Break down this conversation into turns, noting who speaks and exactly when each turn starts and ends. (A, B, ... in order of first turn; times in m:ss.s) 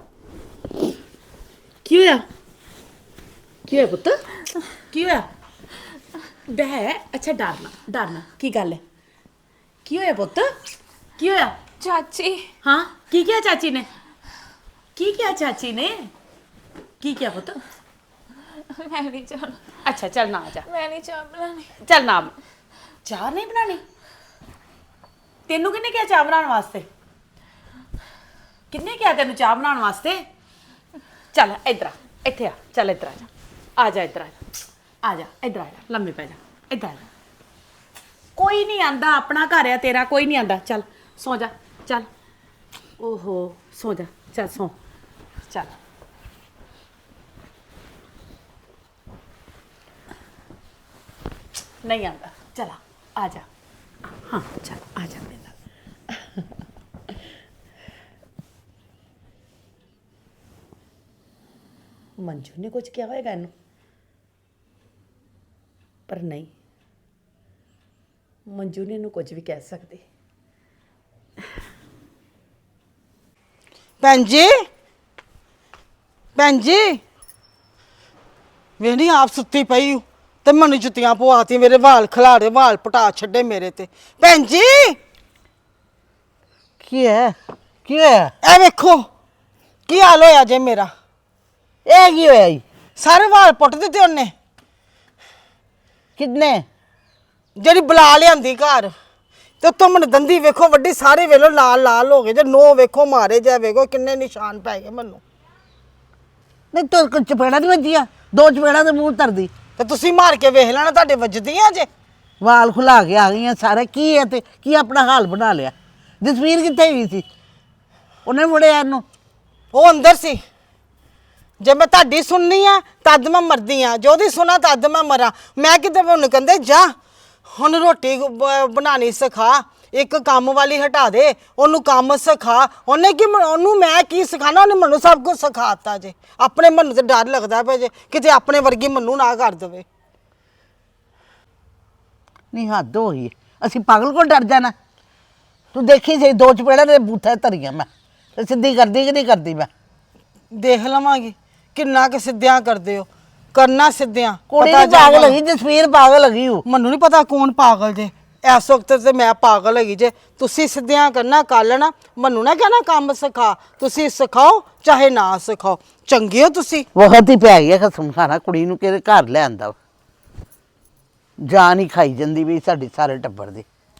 0:01.8-0:02.2 A
0:03.6-0:04.2 A
0:04.7-0:05.3 A
0:06.4-0:08.8 A
0:09.8-0:10.5 A
0:11.2-0:11.6 A
0:11.8-0:12.5 B
0:12.6-0:13.9 A
0:14.9-0:16.1 A
0:17.0-0:17.6 A
0:18.6-0:19.7 B
0:19.8-0:20.7 A
0:20.6-0:21.7 B
0:21.8-0:22.3 A
0:23.0-0:23.8 A
0:25.5-0:26.9 A
0:28.7-0:30.2 A
0:31.3-0:34.4 A
0:35.0-0:37.0 A
0:38.4-0:42.1 A
0:43.0-0:44.7 A
0:45.5-0:45.8 A
0:51.8-0:53.4 A
0:54.2-0:55.5 A
0:56.1-0:56.4 A
1:02.2-1:03.5 A
1:06.1-1:06.5 A
1:08.5-1:10.0 A
1:14.0-1:14.5 C
1:16.4-1:17.0 C
1:18.8-1:25.0 C
1:26.8-1:28.3 D
1:28.4-1:29.1 C
1:29.9-1:30.9 C
1:31.8-1:32.6 D
1:33.0-1:34.3 C
1:36.2-1:36.6 D
1:37.6-1:38.9 C
1:39.6-1:45.2 C
1:46.7-1:49.5 D
1:49.8-1:51.9 C
1:52.4-1:57.2 D
1:58.2-1:59.0 D
1:59.7-2:00.4 C
2:01.6-2:06.9 C
2:07.5-2:19.8 C
2:22.5-2:24.7 D
2:25.7-2:29.7 D
2:30.5-2:35.4 C
2:34.5-2:36.6 D
2:36.6-2:46.9 C
2:46.9-2:49.7 D
2:51.4-2:53.6 D